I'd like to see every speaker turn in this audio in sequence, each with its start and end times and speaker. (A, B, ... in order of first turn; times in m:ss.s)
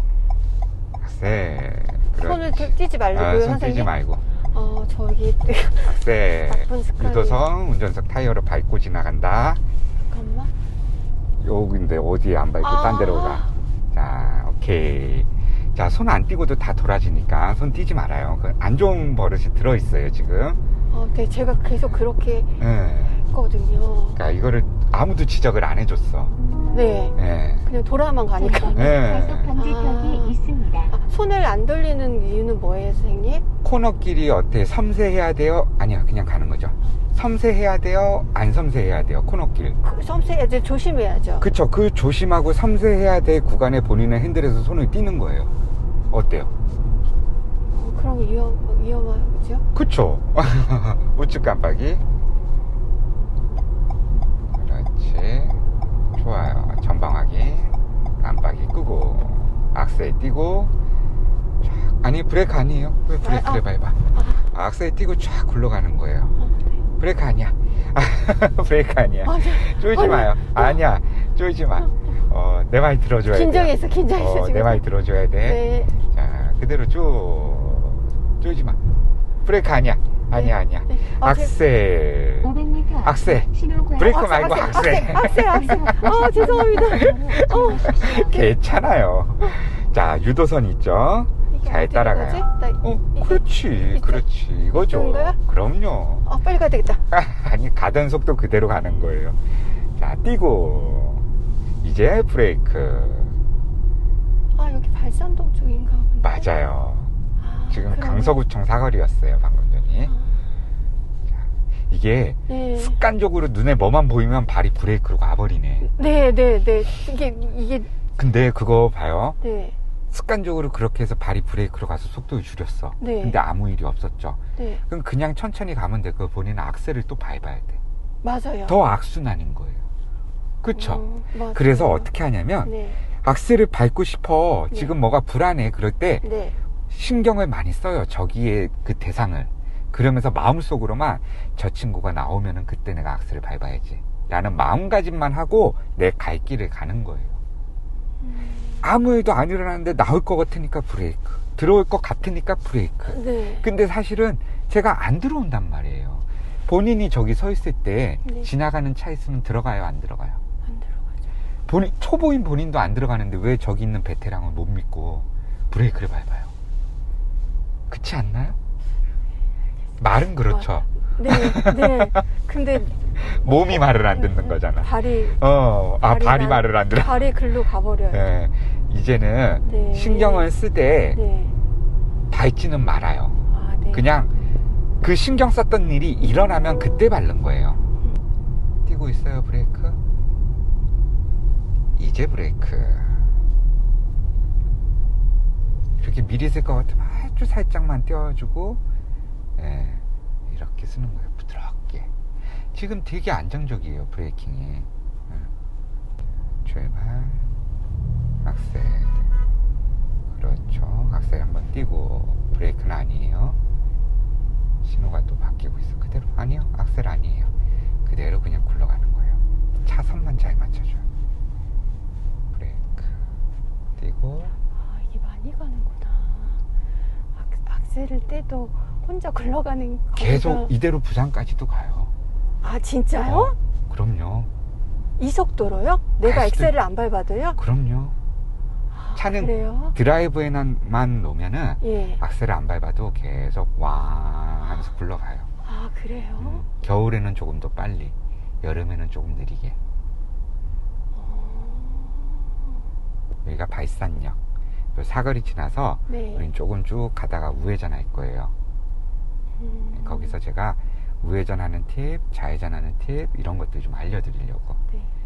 0:01.0-0:04.2 A
0:02.2-0:03.9 B
0:04.4-0:07.4 B
0:05.8-0:09.6 A
0:10.0-0:10.5 B
0:11.4-0:20.6 A
0:12.6-0:13.5 B
0:20.9-0:22.6 B
0:22.6-0:23.2 A
0:23.2-0:24.2 B
0:24.1-0:26.4 A
0:26.7-0:28.9 B
0:27.2-0:27.7 A
0:28.4-0:30.9 C
0:28.7-0:29.5 A
0:29.5-0:30.4 B
0:30.9-0:33.4 B
0:33.6-0:39.8 A
0:39.8-0:41.5 B
0:41.4-0:45.5 A
0:46.1-0:46.5 A
0:47.7-0:49.7 B
0:49.7-0:52.0 A
0:54.5-0:55.6 A
0:56.1-1:00.7 A
1:01.6-1:06.3 A
1:03.2-1:04.5 B
1:07.0-1:18.8 A
1:09.2-1:10.8 B
1:13.3-1:14.8 B
1:15.4-1:15.9 B
1:19.4-1:36.3 A
1:20.3-1:21.6 B
1:22.4-1:28.5 C
1:24.1-1:27.9 B
1:31.5-1:35.4 B
1:36.2-1:37.0 B
1:37.1-1:41.3 A
1:41.8-1:43.4 A
1:44.5-1:46.5 B
1:46.2-1:47.1 A
1:47.4-1:48.4 B
1:47.7-1:50.1 A
1:50.1-1:50.3 B
1:51.3-1:55.9 A
1:52.5-1:53.0 B
1:55.8-1:58.0 B
1:58.1-1:59.4 A
1:59.4-1:59.8 B
2:00.1-2:07.8 A
2:03.0-2:03.4 B
2:04.6-2:04.8 B
2:08.2-2:08.8 B
2:08.7-2:09.8 A
2:10.6-2:16.2 A
2:10.7-2:12.1 B
2:12.6-2:13.0 B
2:14.7-2:15.0 B
2:16.2-2:16.5 B
2:16.9-2:27.4 A
2:28.2-2:28.8 B
2:28.8-2:40.4 A
2:33.1-2:33.6 B
2:38.2-2:38.5 B
2:40.6-2:41.1 B
2:41.7-2:46.5 A
2:47.9-2:48.6 A
2:50.0-2:52.2 A
2:50.5-2:53.5 B
2:52.8-3:01.2 A
2:54.1-2:55.4 B
2:56.0-2:58.2 B
2:59.6-3:00.5 B
3:01.1-3:01.5 B
3:02.3-3:04.3 A
3:03.5-3:04.1 B
3:05.0-3:07.8 A
3:08.8-3:10.0 A
3:12.0-3:13.3 A
3:16.0-3:18.8 A
3:19.6-3:25.5 A
3:26.6-3:27.5 A
3:28.4-3:29.3 A
3:30.3-3:33.6 A
3:34.8-3:37.5 A
3:38.0-3:41.0 A
3:42.5-3:43.2 A
3:44.0-3:44.5 A
3:44.7-3:46.6 B
3:47.4-3:50.7 B
3:50.1-3:52.1 A
3:52.6-3:53.6 B
3:53.2-3:54.5 A
3:55.2-3:57.6 B
3:56.2-3:56.7 A
3:57.6-3:58.1 A
3:58.9-4:00.0 B
3:59.1-4:05.5 A
4:01.8-4:02.2 B
4:05.6-4:06.6 B
4:06.4-4:09.8 A
4:11.1-4:12.5 B
4:13.4-4:14.4 A
4:14.9-4:18.5 A
4:16.1-4:16.5 B
4:19.6-4:20.4 B
4:19.9-4:24.8 A